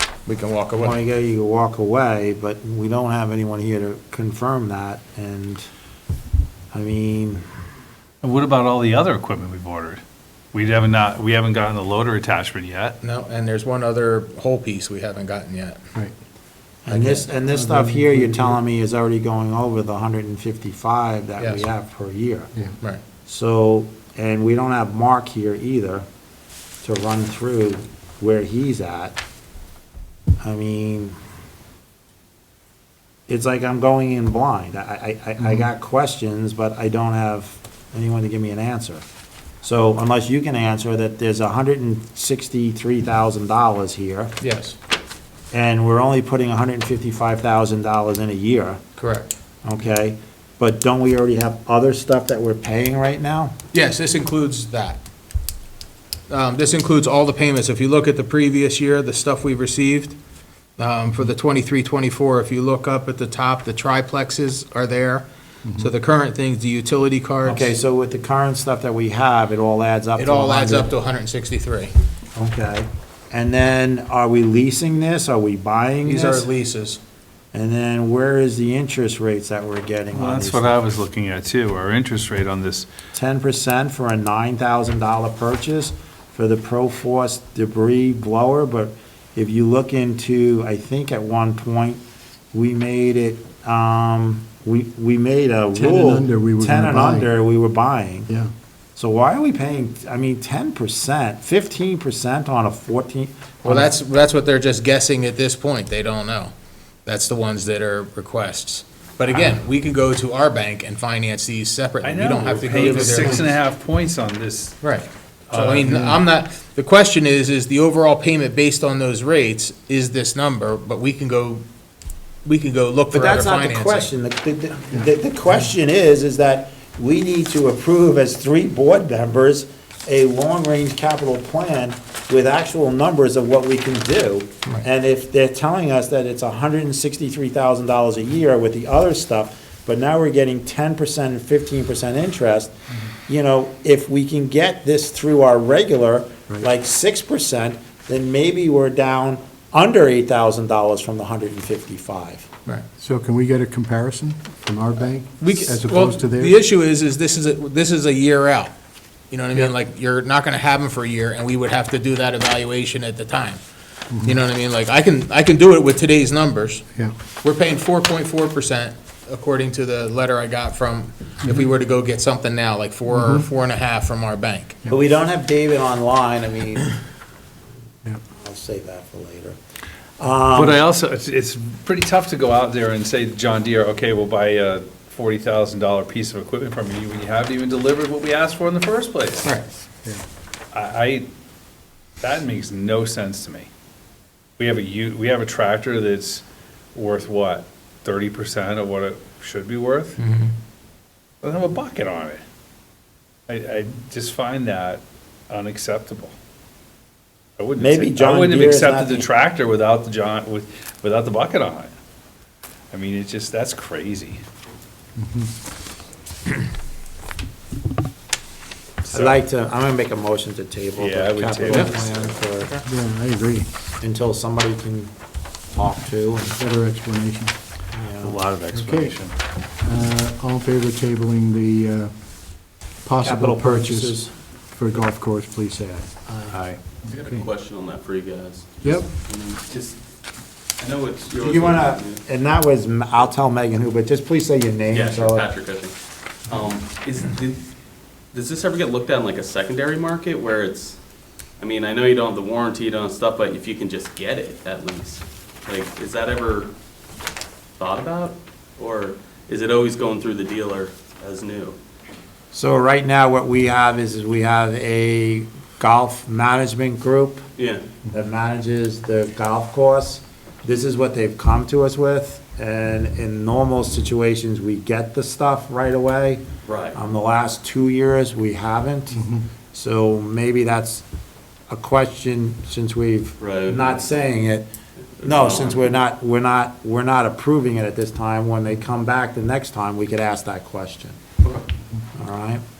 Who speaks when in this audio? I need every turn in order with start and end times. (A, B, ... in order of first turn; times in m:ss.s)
0:00.3-0:01.0 A
0:00.8-0:05.7 B
0:06.7-0:07.4 B
0:08.2-0:10.0 C
0:10.5-0:13.0 C
0:13.0-0:15.8 A
0:16.8-0:22.5 B
0:16.9-0:17.2 A
0:17.2-0:18.6 D
0:21.4-0:21.7 A
0:23.3-0:26.0 B
0:26.8-0:29.2 B
0:30.4-0:31.2 B
0:33.3-0:39.0 B
0:39.6-0:44.4 B
0:44.4-0:44.8 A
0:45.5-0:48.8 B
0:49.0-0:49.3 A
0:49.6-0:53.6 B
0:53.7-0:55.0 A
0:56.3-1:00.2 A
1:00.8-1:07.8 A
1:07.4-1:10.9 B
1:10.2-1:11.9 A
1:12.4-1:16.5 B
1:16.0-1:17.0 A
1:17.5-1:20.7 B
1:20.2-1:22.9 C
1:23.1-1:32.0 B
1:32.5-1:38.3 B
1:35.8-1:37.3 D
1:39.0-1:43.9 B
1:43.6-1:46.5 A
1:47.1-1:53.6 A
1:52.0-1:54.8 C
1:54.8-2:01.6 A
1:55.9-1:56.2 D
2:02.4-2:04.1 A
2:03.1-2:22.7 B
2:23.3-2:32.5 B
2:33.0-2:36.6 D
2:35.4-2:38.7 A
2:39.3-2:43.6 A
2:44.1-2:44.4 D
2:44.2-2:46.8 A
2:47.4-2:54.8 A
2:53.1-2:53.5 D
2:54.9-2:57.0 B
2:58.3-2:59.6 B
3:00.2-3:00.8 B
3:00.6-3:09.5 C
3:10.7-3:11.3 C
3:12.2-3:13.7 C
3:14.6-3:16.4 C
3:17.0-3:20.2 C
3:20.2-3:20.5 A
3:21.4-3:22.4 C
3:23.5-3:26.4 C
3:27.6-3:31.9 C
3:27.8-3:29.3 B
3:32.9-3:34.4 C
3:35.2-3:35.5 D
3:39.1-3:42.8 B
3:41.0-3:41.8 C
3:42.9-3:43.7 D
3:44.0-3:45.1 B
3:45.7-3:46.6 B
3:46.5-3:47.5 D
3:47.9-3:48.4 B
3:48.2-3:49.3 C
3:48.7-3:56.8 D
3:53.2-3:54.3 B
3:57.0-4:00.0 E
4:00.8-4:02.2 E
4:01.4-4:05.5 B
4:04.9-4:05.9 E
4:06.5-4:07.6 E
4:08.3-4:11.0 E
4:11.6-4:16.7 E
4:17.8-4:21.8 E
4:22.5-4:27.4 B
4:27.6-4:27.8 E
4:28.1-4:41.0 B
4:36.6-4:37.0 E
4:41.7-4:44.7 B
4:43.4-4:44.2 E
4:45.2-4:46.0 E
4:45.2-4:51.2 B
4:51.4-4:51.7 E
4:52.2-4:52.6 B